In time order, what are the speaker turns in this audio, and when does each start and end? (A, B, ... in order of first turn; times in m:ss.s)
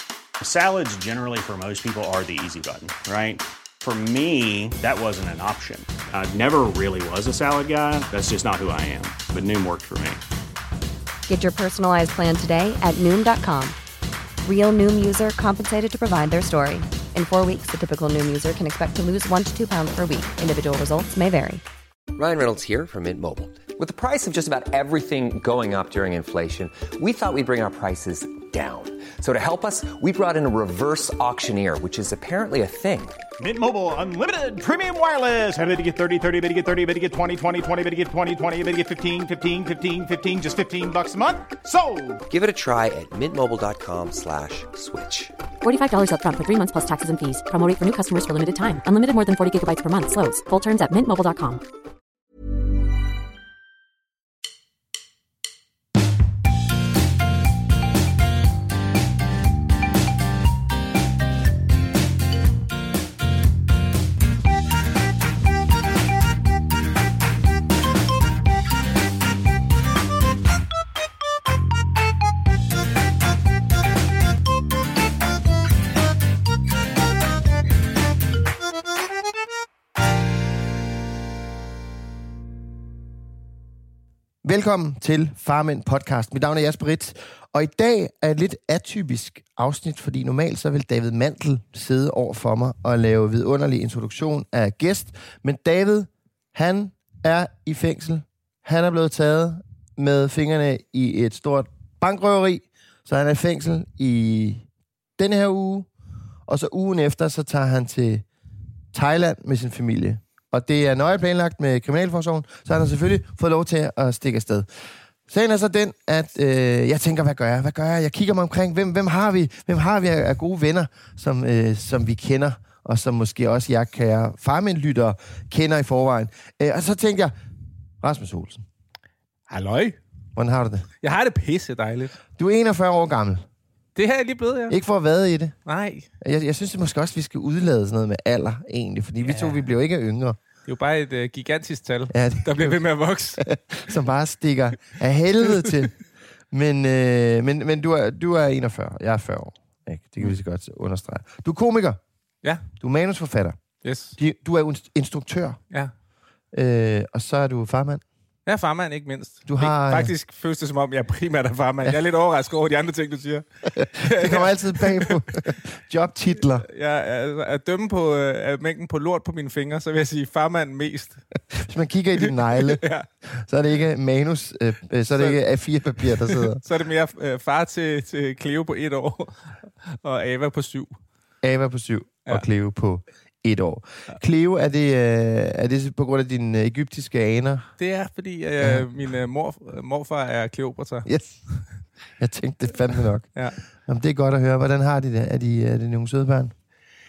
0:00.4-0:10.2 A
0:11.3-0:13.8 B
0:14.4-0:21.6 B
0:22.2-0:33.2 C
0:33.4-0:42.2 D
0:42.3-0:45.3 C
0:45.6-0:51.6 E
1:24.4-1:44.7 F
1:45.2-1:45.9 F
1:46.5-1:48.2 F
1:48.9-1:54.7 F
1:55.3-2:07.3 F
2:08.0-2:08.6 F
2:09.5-2:10.0 G
2:10.4-2:10.9 F
2:11.0-2:12.2 G
2:12.4-2:13.4 F
2:14.0-2:14.8 G
2:14.7-2:15.6 F
2:15.7-2:16.1 G
2:16.2-2:20.4 F
2:19.2-2:19.6 G
2:20.7-2:23.5 G
2:22.1-2:22.8 F
2:23.4-2:25.9 F
2:26.5-2:32.0 F
2:32.8-2:33.6 F
2:33.8-2:34.2 G
2:34.2-2:35.6 F
2:36.5-2:38.0 F
2:38.5-2:45.2 G
2:39.5-2:40.1 F
2:43.8-2:46.7 F
2:46.6-2:51.2 G
2:51.5-2:56.6 F
2:52.2-2:53.1 G
2:56.0-3:01.0 G
3:01.4-3:07.7 F
3:07.8-3:11.1 G
3:08.6-3:08.8 F
3:11.1-3:11.4 F
3:12.2-3:13.3 F
3:13.9-3:16.5 F